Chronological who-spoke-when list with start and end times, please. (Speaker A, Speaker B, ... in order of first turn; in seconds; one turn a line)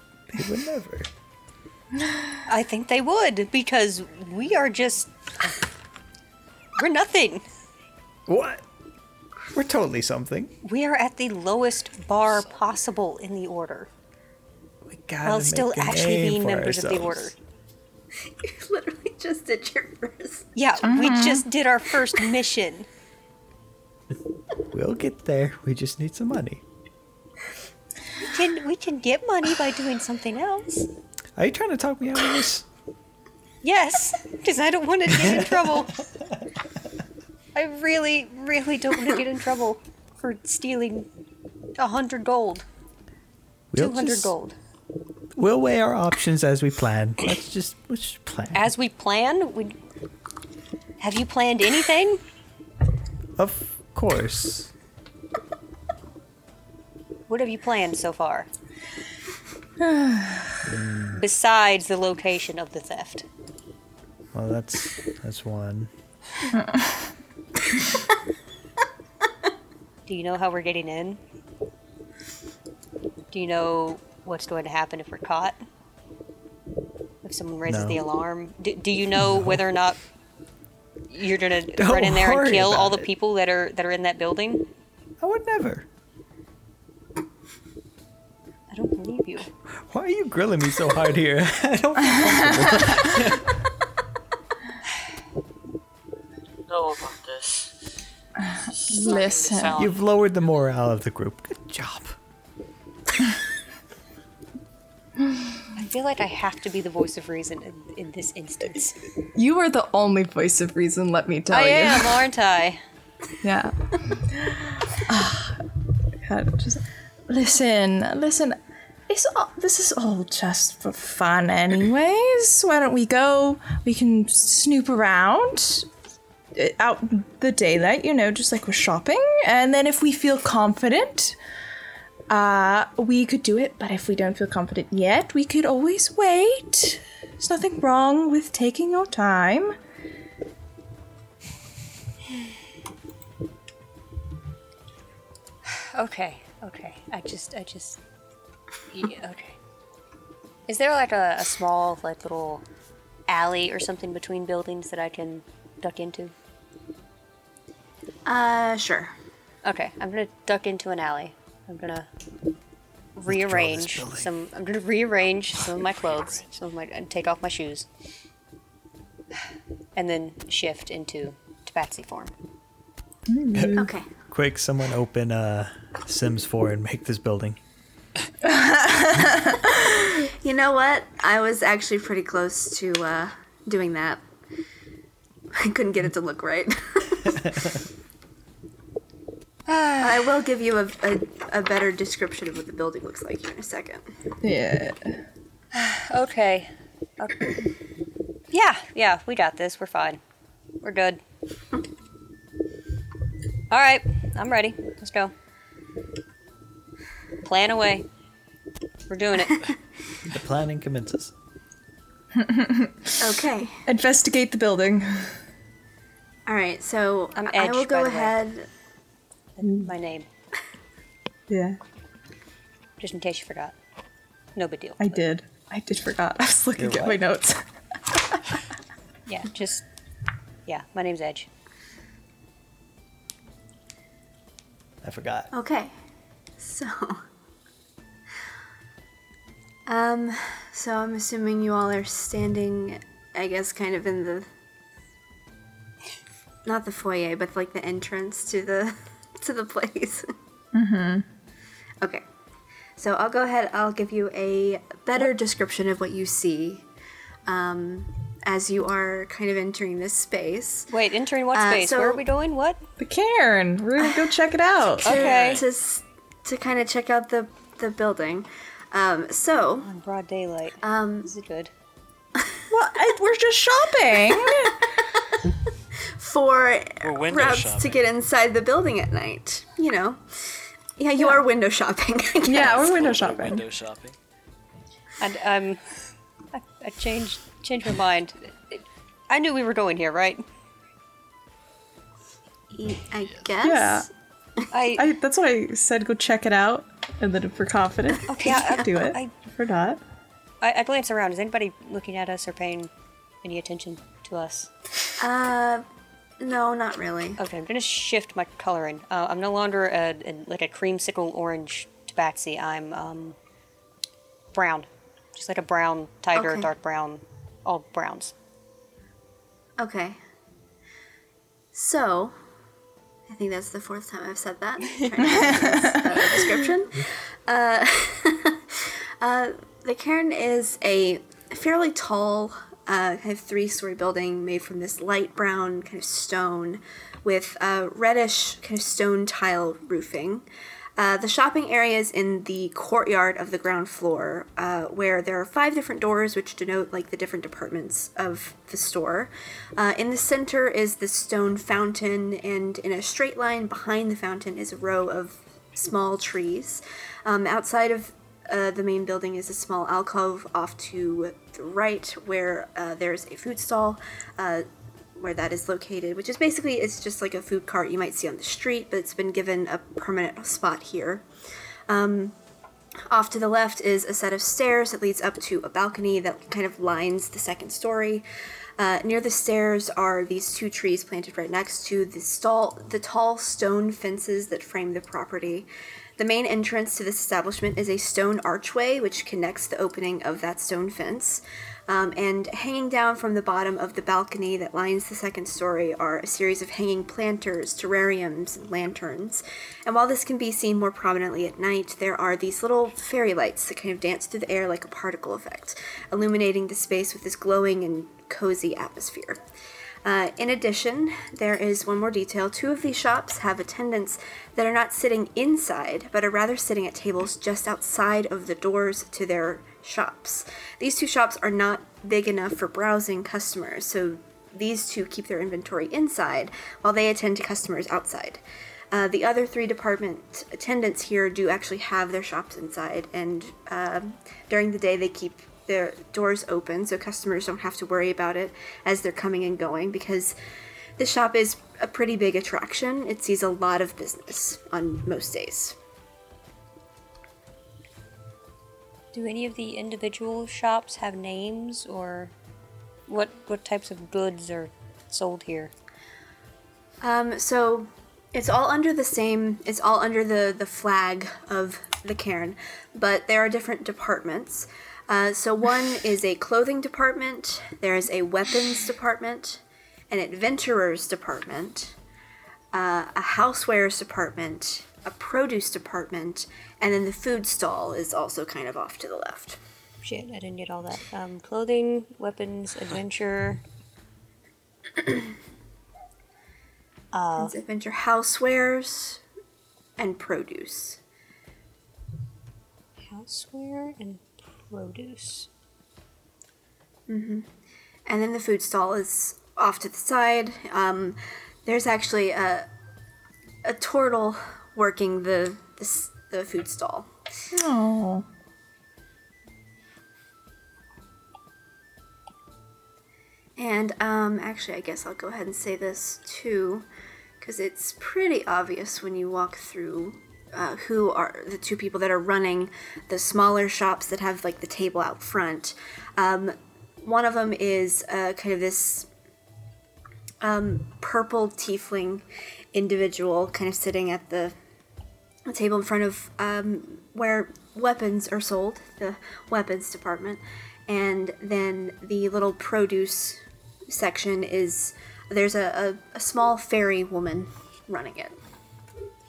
Speaker A: 0.3-1.1
Speaker B: 2.5-5.1
Speaker B: 6.8-7.4
Speaker A: 8.3-8.6
Speaker A: 9.5-10.5
Speaker B: 10.6-13.9
Speaker A: 14.8-17.3
Speaker B: 15.2-17.3
Speaker C: 18.4-20.5
Speaker B: 20.6-22.9
Speaker D: 20.8-21.4
Speaker A: 24.7-26.6
Speaker B: 28.3-30.9
Speaker A: 31.4-32.6
Speaker B: 33.6-35.9
Speaker A: 35.1-35.8
Speaker B: 37.5-41.1
Speaker B: 41.8-42.6
Speaker A: 43.7-44.3
Speaker B: 43.8-44.5
Speaker A: 45.4-48.7
Speaker B: 48.5-49.8
Speaker B: 51.0-52.2
Speaker A: 53.4-54.7
Speaker B: 57.3-58.5
Speaker D: 59.8-60.6
Speaker A: 60.6-61.2
Speaker B: 61.1-63.2
Speaker A: 64.3-65.9
Speaker B: 70.0-71.2
Speaker B: 73.3-75.6
Speaker B: 77.2-80.0
Speaker A: 77.7-78.0
Speaker A: 79.1-79.6
Speaker B: 81.1-84.7
Speaker A: 81.8-83.1
Speaker A: 85.2-85.8
Speaker B: 88.7-89.5
Speaker A: 89.7-93.6
Speaker E: 96.7-97.8
Speaker D: 98.4-99.8
Speaker E: 98.6-100.0
Speaker A: 99.8-102.2
Speaker B: 105.8-109.0
Speaker D: 109.3-112.2
Speaker B: 111.5-112.8
Speaker D: 113.4-115.6
Speaker D: 116.2-118.6
Speaker D: 119.1-125.9
Speaker D: 126.5-131.4
Speaker D: 132.3-139.8
Speaker B: 145.7-148.0
Speaker B: 148.9-149.6
Speaker B: 150.7-152.6
Speaker B: 153.3-156.3
Speaker C: 158.2-159.1
Speaker B: 159.6-162.1
Speaker B: 163.2-167.9
Speaker A: 163.3-164.3
Speaker F: 165.8-166.6
Speaker B: 169.9-172.3
Speaker D: 173.3-173.9
Speaker A: 173.5-177.6
Speaker C: 173.8-174.1
Speaker D: 178.4-180.1
Speaker C: 180.4-184.2
Speaker C: 185.5-187.4
Speaker B: 189.7-190.1
Speaker C: 190.0-194.1
Speaker D: 194.4-195.2
Speaker B: 195.7-197.5
Speaker B: 198.5-200.2
Speaker B: 200.8-201.2
Speaker B: 203.7-205.3
Speaker B: 207.4-208.0
Speaker B: 209.1-209.7
Speaker A: 210.3-211.3
Speaker D: 212.4-213.2
Speaker C: 213.2-213.8
Speaker D: 213.8-215.4
Speaker C: 216.5-218.7
Speaker B: 217.3-218.4
Speaker B: 219.6-220.3
Speaker D: 219.6-219.9
Speaker D: 221.5-221.8
Speaker B: 223.0-223.7
Speaker B: 224.5-225.2
Speaker D: 225.0-228.4
Speaker A: 226.8-227.2
Speaker B: 229.2-229.9
Speaker B: 230.7-231.5
Speaker A: 235.0-235.5
Speaker C: 235.5-235.9
Speaker C: 236.6-237.2
Speaker C: 239.9-244.5
Speaker C: 246.6-250.3
Speaker D: 250.7-251.2
Speaker C: 253.0-256.8
Speaker C: 257.5-260.9
Speaker B: 260.9-262.8
Speaker C: 261.5-262.2
Speaker D: 263.0-265.2
Speaker C: 264.0-264.4
Speaker C: 265.0-269.9
Speaker B: 265.0-265.6
Speaker B: 269.8-271.7
Speaker C: 270.8-271.3
Speaker D: 272.7-274.9
Speaker C: 276.1-283.0
Speaker F: 277.0-278.0
Speaker D: 282.4-283.6
Speaker F: 282.5-284.2
Speaker B: 285.2-285.8
Speaker B: 286.5-290.4
Speaker C: 292.7-294.1
Speaker D: 293.6-294.1
Speaker B: 294.7-295.1
Speaker D: 295.0-300.0
Speaker B: 298.3-299.3
Speaker B: 300.6-302.9
Speaker B: 303.4-304.7
Speaker C: 305.2-305.9
Speaker C: 306.4-307.4
Speaker B: 307.4-313.4
Speaker B: 314.5-318.3
Speaker C: 316.3-316.7
Speaker C: 319.8-320.2
Speaker C: 321.7-322.4
Speaker C: 323.3-340.4
Speaker D: 325.2-326.5
Speaker C: 341.0-371.2
Speaker C: 371.9-372.3
Speaker C: 373.1-378.2
Speaker C: 378.8-409.4
Speaker C: 410.0-428.4
Speaker C: 428.9-440.4
Speaker C: 441.0-445.8
Speaker B: 449.1-452.3
Speaker B: 453.1-455.7
Speaker C: 457.0-471.9
Speaker C: 472.7-479.6
Speaker B: 480.0-483.6
Speaker B: 487.1-487.5
Speaker C: 487.4-489.2
Speaker C: 490.0-491.0
Speaker B: 493.1-495.5
Speaker C: 497.1-497.5
Speaker C: 498.1-502.7
Speaker C: 503.6-507.1
Speaker D: 507.5-508.2
Speaker C: 513.6-516.9
Speaker C: 517.4-529.1
Speaker C: 530.4-534.5
Speaker C: 535.5-548.4